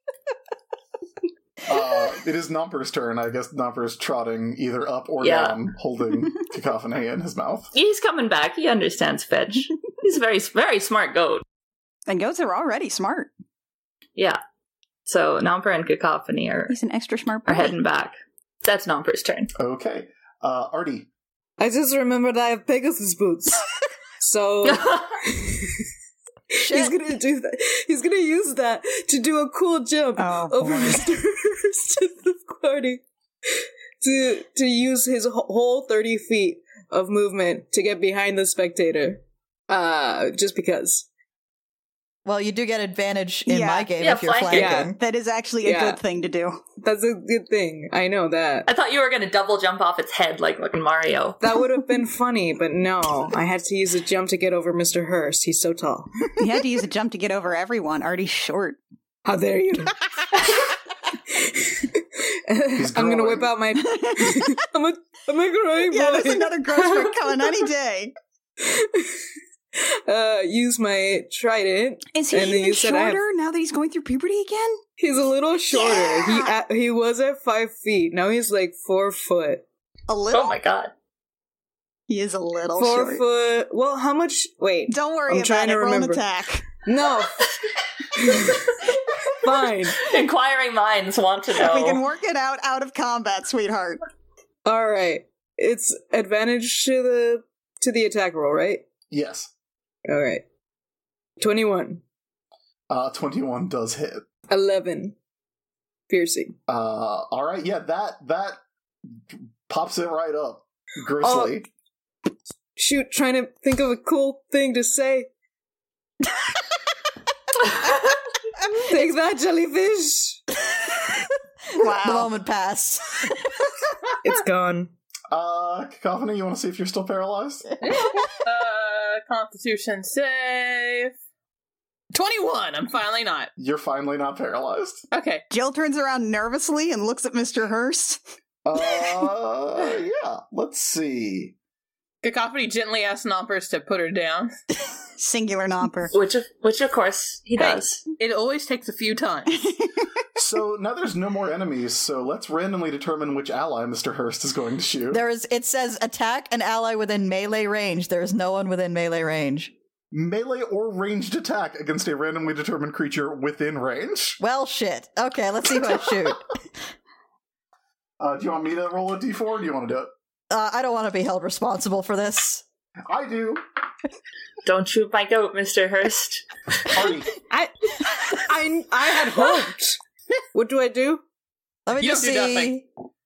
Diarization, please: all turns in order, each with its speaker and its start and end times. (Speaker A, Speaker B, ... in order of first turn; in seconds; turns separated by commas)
Speaker A: 1.6-7.7, Speaker B: 5.2-5.6, Speaker B: 7.7-11.4, Speaker C: 12.1-13.3, Speaker B: 15.1-16.8, Speaker C: 16.7-17.8, Speaker B: 17.5-19.5, Speaker A: 19.6-21.1, Speaker D: 21.6-23.7, Speaker D: 24.2-25.9, Speaker B: 24.6-25.2, Speaker D: 26.6-33.0, Speaker E: 26.6-27.0, Speaker C: 30.2-31.0, Speaker D: 33.5-41.1, Speaker E: 42.2-45.0, Speaker C: 43.5-43.9, Speaker B: 44.0-44.8, Speaker D: 44.5-44.9, Speaker C: 44.9-46.6, Speaker D: 45.6-46.0, Speaker D: 46.8-48.7, Speaker B: 48.7-51.4, Speaker D: 51.4-56.3, Speaker C: 56.4-58.8, Speaker D: 59.3-60.0, Speaker D: 61.3-67.6, Speaker A: 62.8-63.5, Speaker C: 63.9-64.3, Speaker C: 65.9-68.2, Speaker D: 68.6-73.2, Speaker C: 72.1-74.8, Speaker D: 75.0-79.7, Speaker C: 75.7-76.6, Speaker C: 80.1-80.5, Speaker B: 80.3-80.9, Speaker C: 82.1-83.2, Speaker D: 82.8-86.2, Speaker C: 84.9-86.7, Speaker D: 86.8-87.5, Speaker D: 88.1-88.7, Speaker D: 89.4-90.0, Speaker B: 90.0-92.0, Speaker C: 91.5-94.0, Speaker D: 94.7-98.8, Speaker A: 99.1-99.5, Speaker D: 100.1-100.4, Speaker D: 101.4-102.0, Speaker A: 102.9-104.3, Speaker D: 104.5-105.2, Speaker D: 106.1-106.6, Speaker A: 106.7-108.6, Speaker A: 109.1-111.7, Speaker D: 111.2-111.6, Speaker D: 112.8-115.3, Speaker D: 118.8-120.4, Speaker E: 120.7-121.2, Speaker C: 121.8-122.3, Speaker E: 121.8-123.7, Speaker D: 124.2-124.9, Speaker A: 125.3-127.8, Speaker F: 127.8-131.1, Speaker F: 132.1-133.5, Speaker A: 133.6-135.0, Speaker F: 135.1-135.4, Speaker C: 135.5-138.2, Speaker A: 138.7-141.6, Speaker F: 142.2-144.5, Speaker C: 145.2-146.1, Speaker B: 146.1-148.0, Speaker F: 147.6-149.7, Speaker C: 149.5-150.1, Speaker A: 150.4-155.2, Speaker E: 155.1-159.7, Speaker A: 160.1-164.4, Speaker E: 164.4-166.5, Speaker A: 168.2-170.1, Speaker E: 170.5-172.6, Speaker A: 173.1-173.6, Speaker B: 174.6-176.5, Speaker A: 176.9-177.3, Speaker D: 177.5-180.0, Speaker D: 180.5-181.2, Speaker E: 181.9-182.9, Speaker F: 182.0-182.7